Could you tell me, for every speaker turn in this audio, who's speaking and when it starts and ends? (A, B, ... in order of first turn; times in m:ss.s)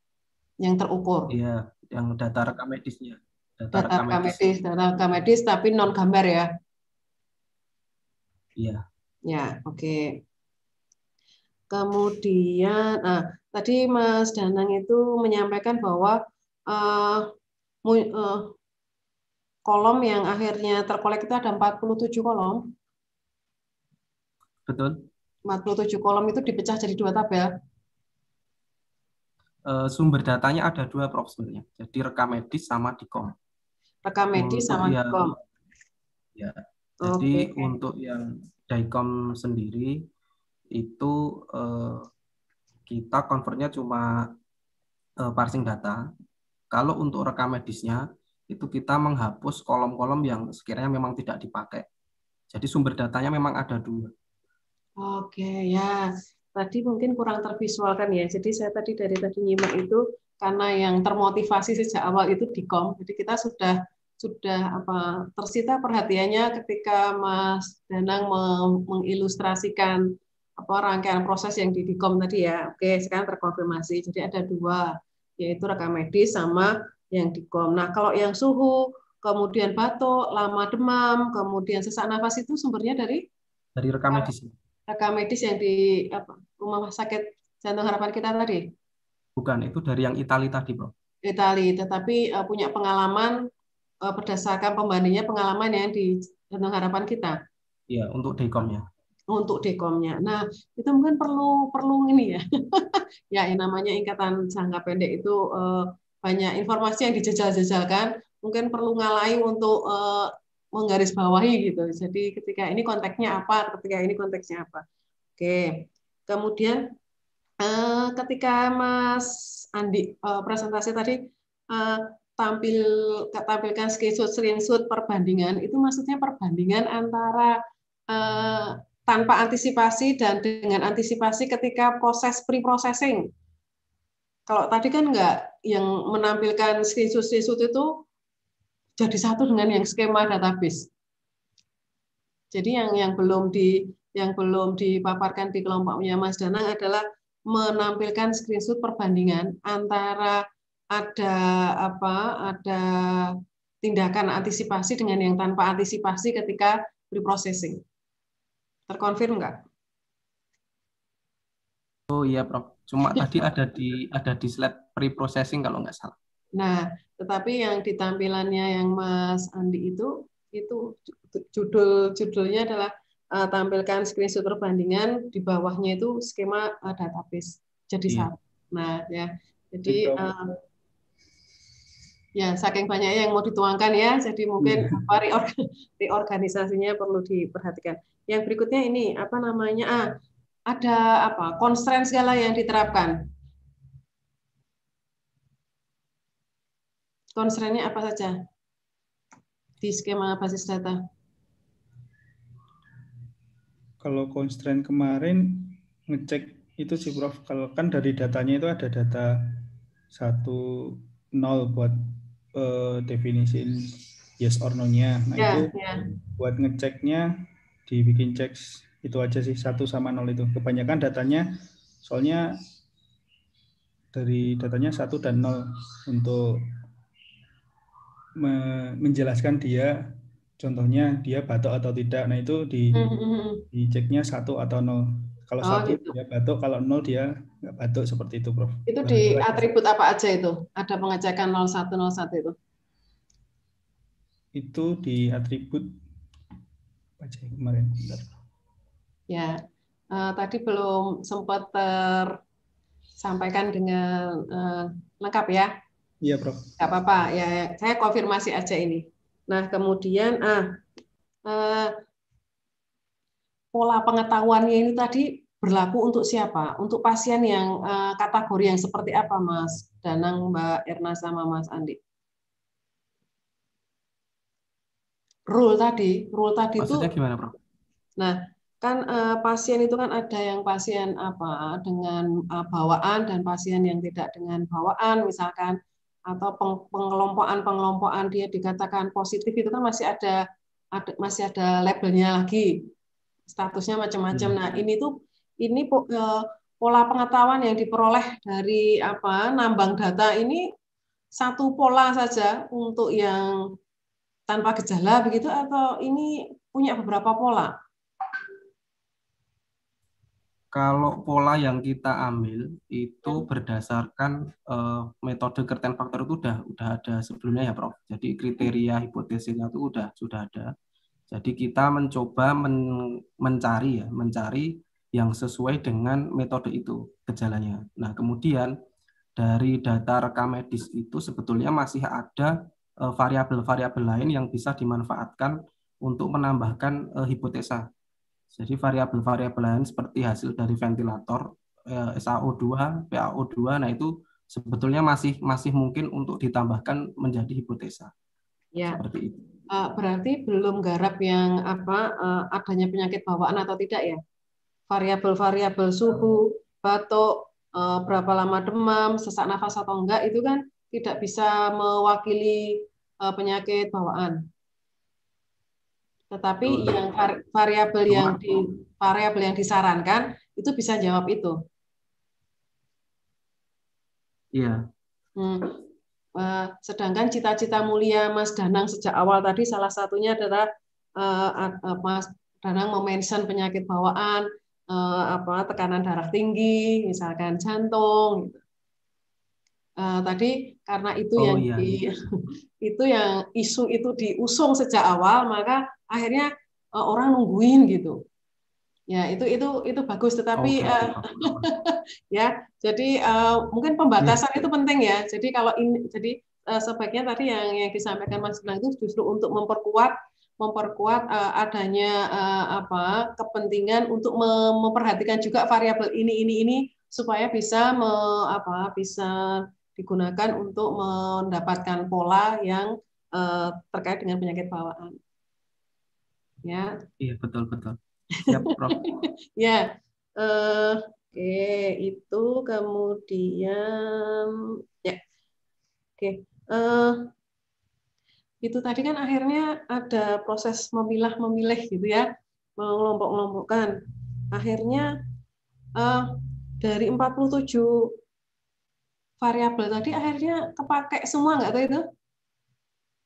0:00.6-0:01.3 A
0:01.3-0:05.2 B
0:03.7-0:06.5 A
0:08.6-0:08.8 B
0:09.3-0:10.2 A
0:11.7-0:17.2 A
0:17.8-0:18.5 A
0:19.6-0:22.7 A
0:24.7-0:25.0 B
0:25.5-0:27.5 A
0:29.7-0:33.3 B
0:34.0-0:35.4 A
0:34.3-0:35.3 B
0:36.4-0:40.0 B
0:37.0-0:37.7 A
0:40.7-0:42.1 B
0:42.9-0:44.3 B
0:45.2-0:46.1 B
0:46.7-0:51.9 B
0:52.5-0:54.1 B
0:55.0-1:23.2 A
1:23.8-1:24.5 B
1:24.9-1:28.7 A
1:29.4-1:30.9 B
1:31.2-1:33.4 A
1:34.0-1:37.4 A
1:37.9-1:38.8 B
1:39.3-1:54.8 A
1:55.4-1:56.8 A
1:57.6-2:07.5 A
2:08.1-2:13.2 A
2:14.5-2:18.0 A
2:19.0-2:20.9 A
2:22.5-2:37.8 A
2:38.9-2:39.6 A
2:42.1-2:46.1 B
2:46.6-3:00.5 A
2:59.9-3:00.2 B
3:02.4-3:10.1 A
3:04.6-3:05.0 B
3:10.7-3:13.3 A
3:17.4-3:18.4 A
3:19.8-3:21.0 A
3:24.0-3:42.6 C
3:35.4-3:36.0 A
3:44.1-3:46.7 C
3:48.4-3:49.9 C
3:50.6-3:53.1 C
3:52.9-3:53.6 A
3:53.7-3:59.7 C
3:55.6-3:56.1 A
3:58.8-4:02.5 A
4:04.5-4:06.0 C
4:07.2-4:08.4 C
4:09.3-4:12.4 A
4:13.2-4:15.7 A
4:16.2-4:16.8 C
4:16.8-4:20.8 A
4:21.4-4:21.9 A
4:23.7-4:32.0 A
4:35.5-4:37.1 A
4:36.8-4:37.6 B
4:38.2-4:50.4 A
4:50.9-4:52.9 A
4:53.5-5:00.7 A
5:01.4-5:03.6 A
5:04.5-5:07.7 A
5:10.7-5:20.7 B
5:21.3-5:22.8 B
5:23.4-5:28.7 B
5:29.4-5:37.9 B
5:38.6-5:48.1 B
5:48.7-5:49.0 A
5:49.0-5:49.5 B
5:49.7-5:54.2 A
5:54.9-6:04.4 A
6:06.3-6:11.6 A
6:06.6-6:07.0 B
6:08.1-6:08.4 B
6:14.5-6:14.8 B
6:15.4-6:15.7 A
6:16.4-6:20.7 A
6:21.2-6:28.6 A
6:30.0-6:38.2 A
6:31.4-6:32.0 B
6:39.1-7:05.2 A
6:40.6-6:41.7 B
6:44.2-6:44.6 B
7:06.6-7:07.0 A
7:07.2-7:09.1 B
7:09.0-7:15.2 A
7:16.2-7:17.3 A
7:18.6-7:23.9 A
7:24.5-7:25.2 A
7:26.0-7:28.2 A
7:29.4-7:32.0 A